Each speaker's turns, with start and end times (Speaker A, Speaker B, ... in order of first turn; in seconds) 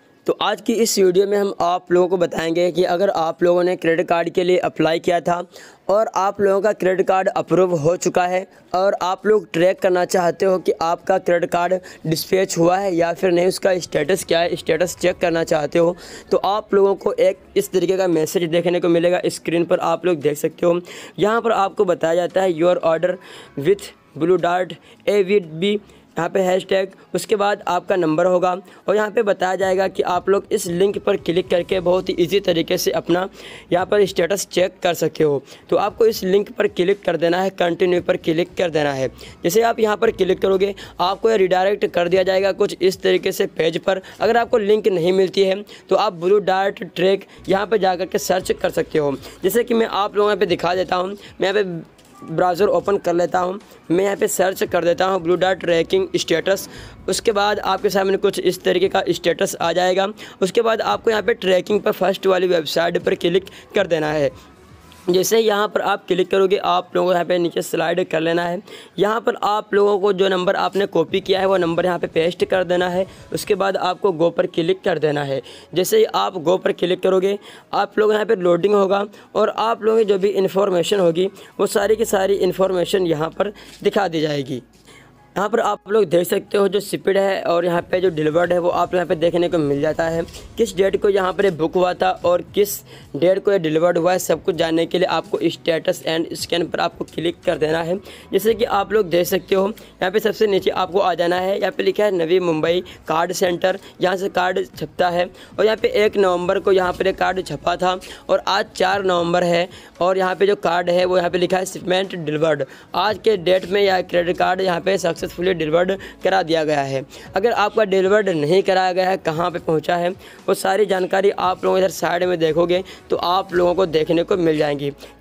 Speaker A: 0.2-64.3, 65.1-84.6, 85.3-124.9